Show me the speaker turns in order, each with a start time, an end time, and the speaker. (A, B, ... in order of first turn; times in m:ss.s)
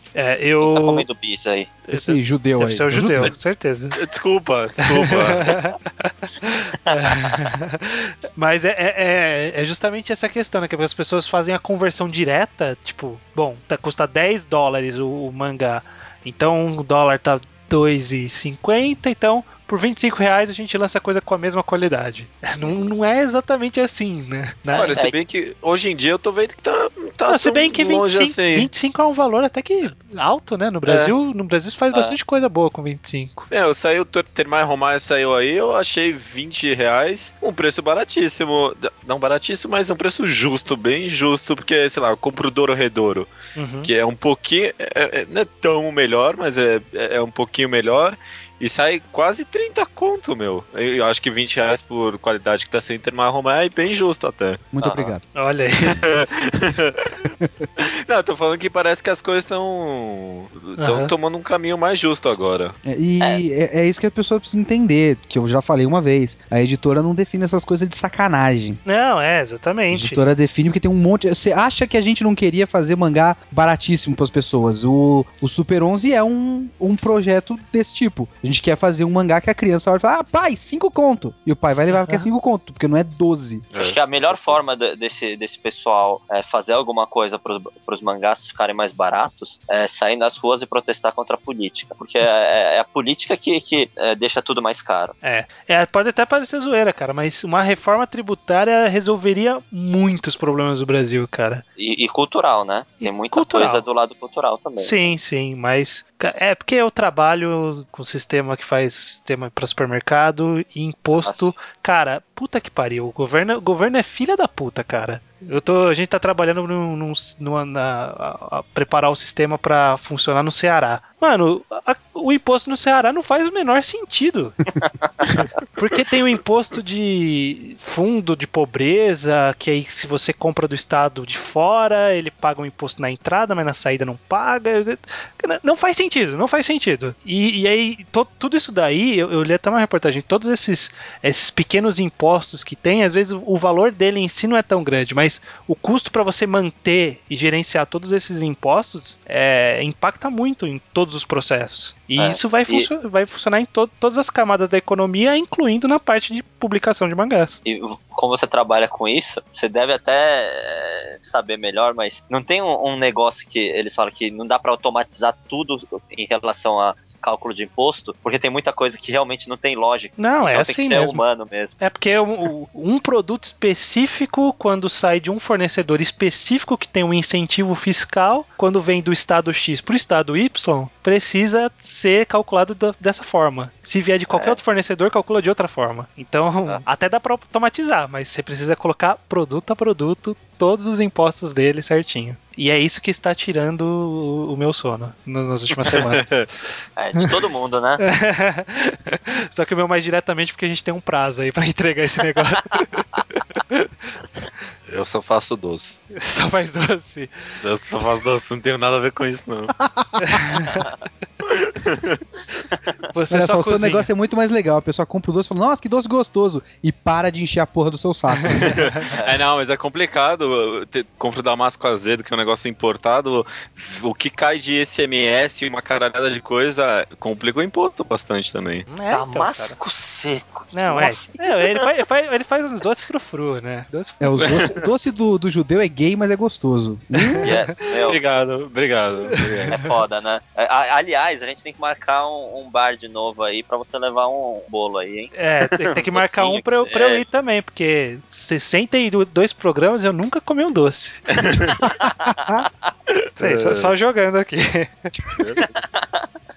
0:00.1-0:01.0 A
0:00.6-0:01.8 B
0:01.9-0:04.0 A
0:01.9-0:03.3 C
0:04.0-0:05.6 D
0:04.8-0:25.0 A
0:24.7-0:25.2 B
0:24.8-0:28.7 D
0:27.3-0:33.5 A
0:30.8-0:31.1 D
0:33.5-0:43.3 D
0:43.6-0:43.9 A
0:43.8-0:54.6 D
0:54.7-0:55.2 C
0:54.8-0:55.1 B
0:55.3-0:56.0 A
0:55.8-0:57.2 D
0:57.4-0:57.7 C
0:57.8-1:02.7 D
1:00.8-1:01.1 A
1:02.8-1:08.8 C
1:08.8-1:10.2 A
1:09.9-1:23.6 C
1:21.9-1:22.2 A
1:23.7-1:24.6 D
1:23.8-1:35.1 B
1:35.2-1:41.6 A
1:41.8-1:45.0 B
1:43.0-1:43.8 A
1:44.8-2:04.6 A
1:51.2-1:51.5 B
2:04.8-2:05.1 B
2:05.8-2:37.6 A
2:32.2-2:32.9 B
2:37.6-2:51.8 B
2:50.2-2:51.2 A
2:51.8-3:16.3 A
3:04.3-3:04.6 B
3:15.7-3:16.5 D
3:17.0-3:18.0 B
3:18.0-3:23.0 A
3:23.7-3:24.1 A
3:24.9-3:26.0 D
3:26.1-3:27.3 A
3:27.6-3:29.7 D
3:29.8-3:30.4 C
3:30.2-3:30.9 A
3:31.4-3:32.2 D
3:33.1-3:34.1 A
3:33.3-3:38.7 C
3:38.3-3:39.1 A
3:38.6-3:48.9 D
3:39.1-3:39.4 B
3:48.9-3:49.8 A
3:49.1-3:51.8 B
3:50.7-3:54.6 A
3:54.2-3:57.5 C
3:54.4-3:54.8 D
3:57.2-3:57.7 A
3:57.4-3:58.2 B
3:58.0-3:59.7 D
3:59.5-3:59.8 A
3:59.7-4:07.2 B
4:05.3-4:11.4 A
4:11.3-4:11.8 D
4:11.8-4:12.7 C
4:12.2-4:12.8 B
4:13.1-4:13.9 D
4:13.4-4:15.3 A
4:15.3-4:15.7 D
4:15.9-4:16.2 B